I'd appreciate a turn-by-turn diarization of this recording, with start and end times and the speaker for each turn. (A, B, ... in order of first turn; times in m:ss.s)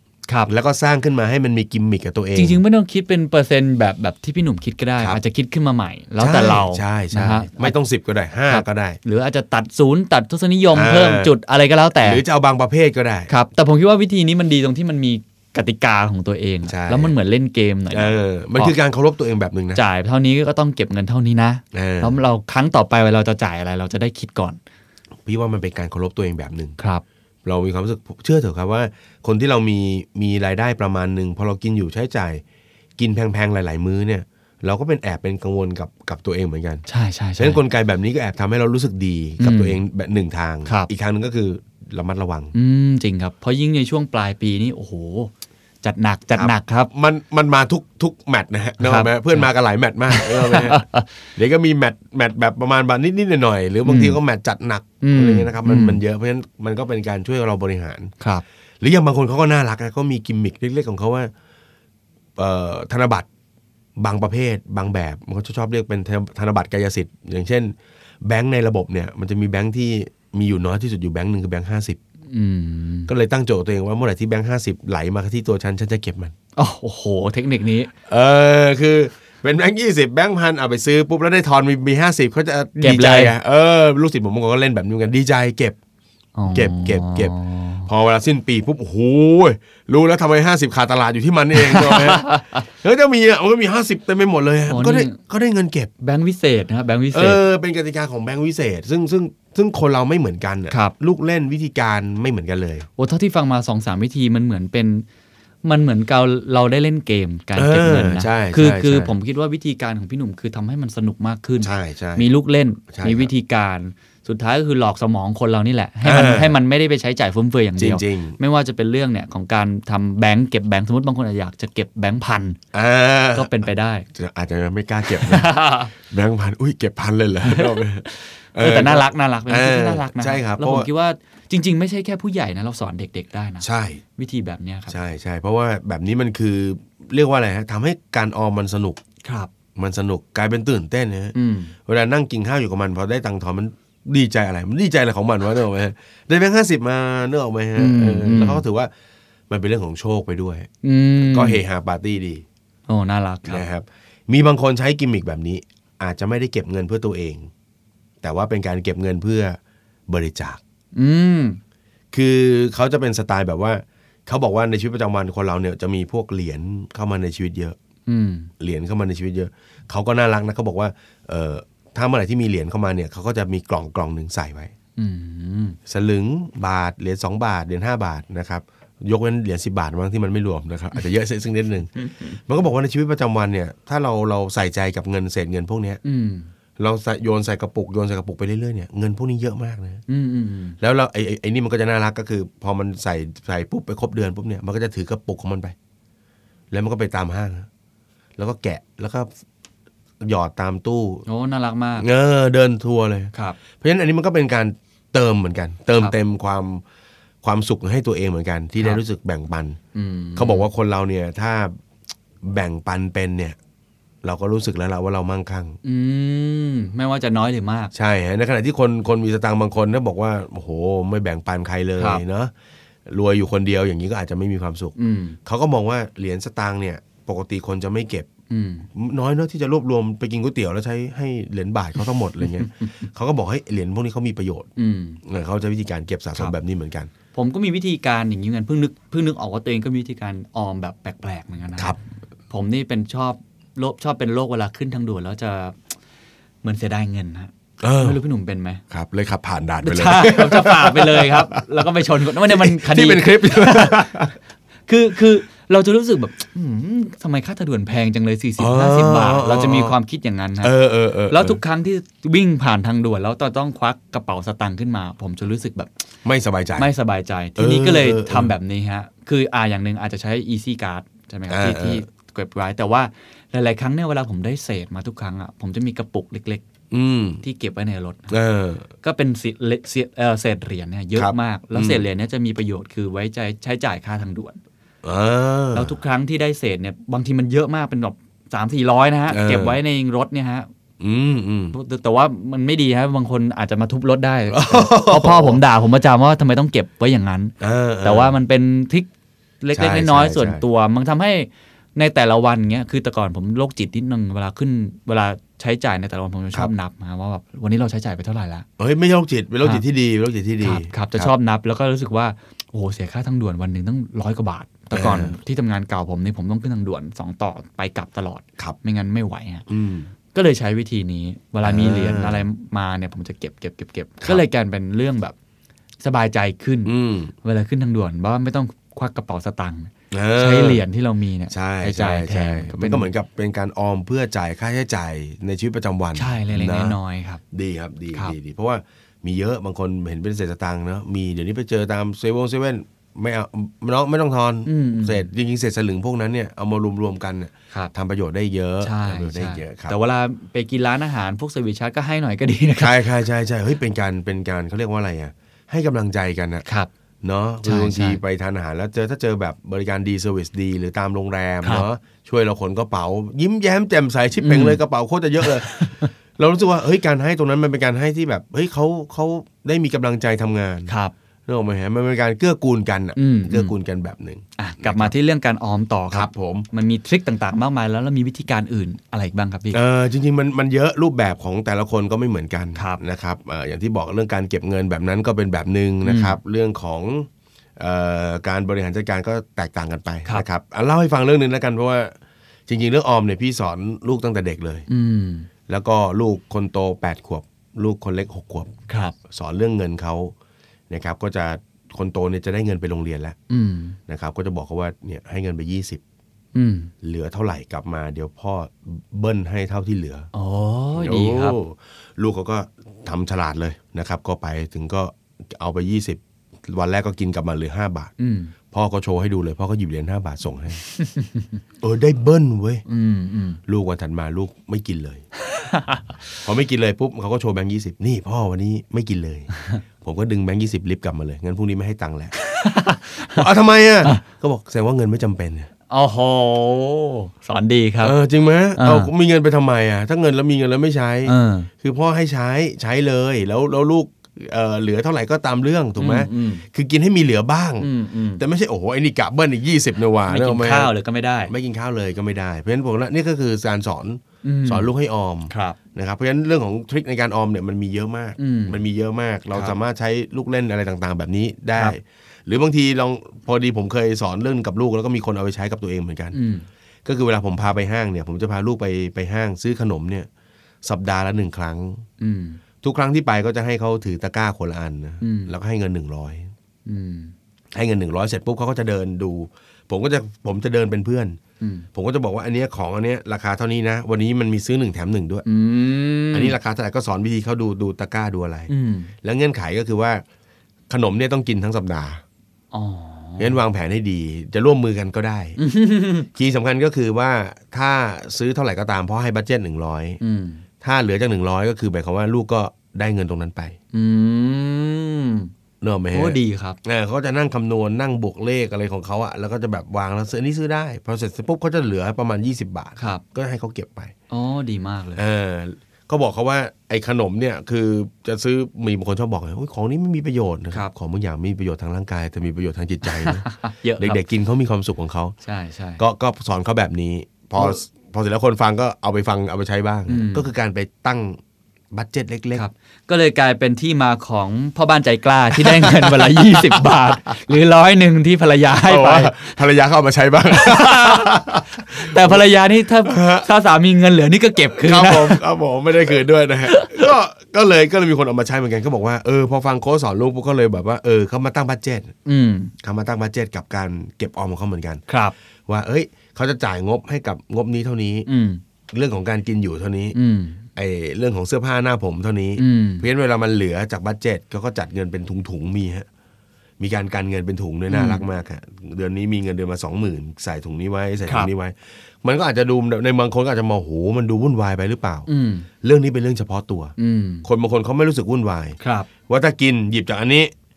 0:00.5-0:02.6 A
0:02.4-0:07.8 B
0:06.2-0:09.0 A
0:08.5-0:12.2 B
0:10.7-0:11.3 A
0:12.0-0:13.3 A
0:13.3-0:18.8 B
0:16.7-0:17.1 A
0:17.9-0:19.8 A
0:19.8-0:24.6 B
0:21.7-0:22.2 A
0:25.2-0:26.8 A
0:26.8-0:27.0 B
0:27.4-0:32.4 A
0:33.0-0:36.8 A
0:36.9-0:37.6 B
0:37.4-0:42.5 A
0:39.4-0:39.8 B
0:42.5-0:45.3 B
0:45.8-0:46.9 B
0:46.3-0:50.8 A
0:48.8-0:49.5 B
0:50.1-0:51.1 B
0:51.4-0:58.1 A
0:53.8-0:54.2 B
0:55.0-0:56.0 B
0:58.8-1:01.3 A
1:02.4-1:03.3 A
1:04.0-1:12.0 A
1:12.3-1:13.1 B
1:13.1-1:16.3 A
1:16.6-1:17.9 B
1:18.1-1:25.8 A
1:22.8-1:23.3 B
1:26.4-1:27.9 B
1:26.5-1:27.3 A
1:27.9-1:35.9 A
1:31.6-1:32.6 B
1:34.7-1:35.2 B
1:36.0-1:37.4 B
1:37.1-1:42.9 A
1:43.0-1:45.0 B
1:45.6-2:02.6 B
1:47.6-1:49.1 A
1:51.6-1:52.3 A
1:52.9-1:53.3 A
1:56.0-1:56.6 A
1:57.8-1:58.4 A
2:02.7-2:10.9 A
2:03.4-2:04.1 B
2:05.1-2:05.9 B
2:07.5-2:13.7 B
2:13.6-2:14.0 A
2:14.2-2:15.0 B
2:14.9-2:19.0 A
2:19.2-2:19.5 B
2:19.8-2:28.9 A
2:21.3-2:21.7 B
2:27.8-2:28.6 B
2:29.5-2:30.7 A
2:30.8-2:31.6 B
2:31.2-2:32.4 A
2:32.9-2:33.6 B
2:33.4-2:37.5 A
2:38.2-2:40.6 A
2:41.0-2:41.6 B
2:42.1-2:47.8 A
2:48.1-2:48.5 B
2:48.6-2:54.7 A
2:55.0-2:55.8 B
2:55.9-3:06.0 A
3:06.0-3:06.5 B
3:06.8-3:10.0 A
3:10.1-3:10.8 B
3:10.8-3:15.8 A
3:16.7-3:17.7 A
3:18.4-3:19.3 A
3:20.2-3:21.2 A
3:21.3-3:22.1 B
3:22.0-3:26.8 A
3:27.4-3:29.8 A
3:30.0-3:30.7 B
3:30.4-3:31.8 A
3:32.4-3:33.6 A
3:34.2-3:35.8 A
3:35.8-3:37.9 B
3:37.9-3:42.5 A
3:43.1-3:48.3 A
3:45.0-3:45.4 B
3:48.5-3:48.9 B
3:48.9-3:54.7 A
3:54.8-3:55.2 B
3:55.2-3:57.1 A
3:57.3-4:02.0 B
4:02.5-4:05.8 B
4:06.6-4:08.8 B
4:07.8-4:08.2 A
4:08.9-4:11.6 A
4:09.8-4:14.1 B
4:12.4-4:14.3 A
4:14.9-4:20.7 B
4:18.6-4:20.0 A
4:20.6-4:21.6 A
4:21.3-4:25.9 B
4:26.2-4:26.9 A
4:26.8-4:36.6 B
4:27.6-4:28.5 A
4:31.5-4:32.0 A
4:36.9-4:37.4 A
4:37.4-4:38.4 B
4:38.3-4:38.9 A
4:39.0-4:44.6 B
4:41.2-4:42.0 A
4:45.0-4:46.0 A
4:45.7-4:50.7 B
4:49.3-4:49.8 A
4:51.0-4:51.8 A
4:51.7-4:59.1 B
4:54.5-4:55.6 A
4:57.6-4:58.4 A
4:59.6-5:08.7 B
4:59.8-5:00.6 A
5:08.8-5:11.3 A
5:10.6-5:19.7 B
5:14.9-5:15.4 A
5:19.7-5:20.1 A
5:20.3-5:25.4 B
5:21.6-5:22.5 A
5:26.0-5:33.1 B
5:26.9-5:27.3 A
5:30.1-5:30.8 A
5:31.5-5:37.0 A
5:36.2-5:37.4 B
5:37.5-5:50.0 A
5:44.7-5:45.3 B
5:48.8-5:53.1 B
5:52.8-5:56.6 A
5:57.2-6:10.9 A
5:57.6-5:58.2 B
6:04.4-6:04.8 B
6:05.4-6:06.1 B
6:10.9-6:11.1 B
6:11.5-6:15.1 A
6:13.2-6:13.7 B
6:14.6-6:19.8 B
6:16.1-6:16.7 A
6:19.7-6:32.2 A
6:26.0-6:26.4 B
6:32.7-6:34.9 A
6:34.9-6:35.5 B
6:35.7-6:38.7 A
6:38.9-6:39.2 B
6:39.3-6:40.3 A
6:40.9-6:43.4 A
6:43.5-6:44.0 B
6:44.1-6:46.0 A
6:46.6-6:46.9 B
6:47.0-6:50.3 A
6:50.3-6:51.6 B
6:51.0-6:58.1 A
6:58.2-6:58.5 B
6:58.7-7:00.8 A
7:01.0-7:01.5 B
7:01.8-7:02.8 A
7:02.9-7:03.6 B
7:03.7-7:05.2 A
7:05.5-7:06.2 B
7:06.4-7:12.3 A
7:12.4-7:13.5 B
7:13.3-7:15.7 A
7:15.9-7:18.2 B
7:18.0-7:30.9 A
7:18.8-7:19.1 B
7:21.2-7:21.7 B
7:26.0-7:26.7 B
7:27.8-7:28.4 B
7:30.3-7:31.5 B
7:31.5-7:46.4 A
7:34.4-7:34.9 B
7:35.5-7:35.8 B
7:38.4-7:38.8 B
7:46.3-7:46.7 B
7:47.0-7:50.3 A
7:50.8-7:52.0 A
7:52.2-7:52.6 B
7:52.8-7:56.5 A
7:55.2-7:55.5 B
7:56.9-7:57.3 B
7:57.7-8:01.4 A
8:01.6-8:01.9 B
8:01.9-8:05.5 A
8:05.5-8:06.6 B
8:06.3-8:08.7 A
8:08.7-8:09.1 B
8:09.2-8:10.2 A
8:10.9-8:12.2 A
8:12.7-8:13.6 B
8:13.4-8:15.6 A
8:15.6-8:16.3 B
8:16.3-8:20.2 A
8:20.2-8:20.6 B
8:20.8-8:23.8 A
8:23.9-8:25.5 B
8:25.8-8:34.1 A
8:26.1-8:26.8 B
8:33.0-8:33.2 B
8:34.3-8:35.2 B
8:35.2-8:43.5 A
8:43.0-8:44.2 B
8:44.0-8:45.4 A
8:45.4-8:46.0 B
8:46.0-8:51.4 A
8:50.1-8:50.5 B
8:51.9-8:52.6 A
8:52.5-8:59.6 B
8:55.6-8:57.1 A
8:58.8-9:02.4 A
9:00.5-9:05.4 B
9:03.0-9:03.5 A
9:04.7-9:12.1 A
9:06.7-9:07.1 B
9:12.3-9:12.7 B
9:12.8-9:15.0 A
9:15.1-9:15.3 B
9:15.7-9:18.3 A
9:18.3-9:18.6 B
9:18.9-9:20.2 A
9:20.1-9:20.6 B
9:20.8-9:26.1 A
9:22.6-9:23.1 B
9:26.8-9:35.3 A
9:27.9-9:28.2 B
9:35.3-9:35.7 B
9:35.8-9:38.8 A
9:37.0-9:37.5 B
9:38.8-9:39.1 B
9:39.3-9:40.5 A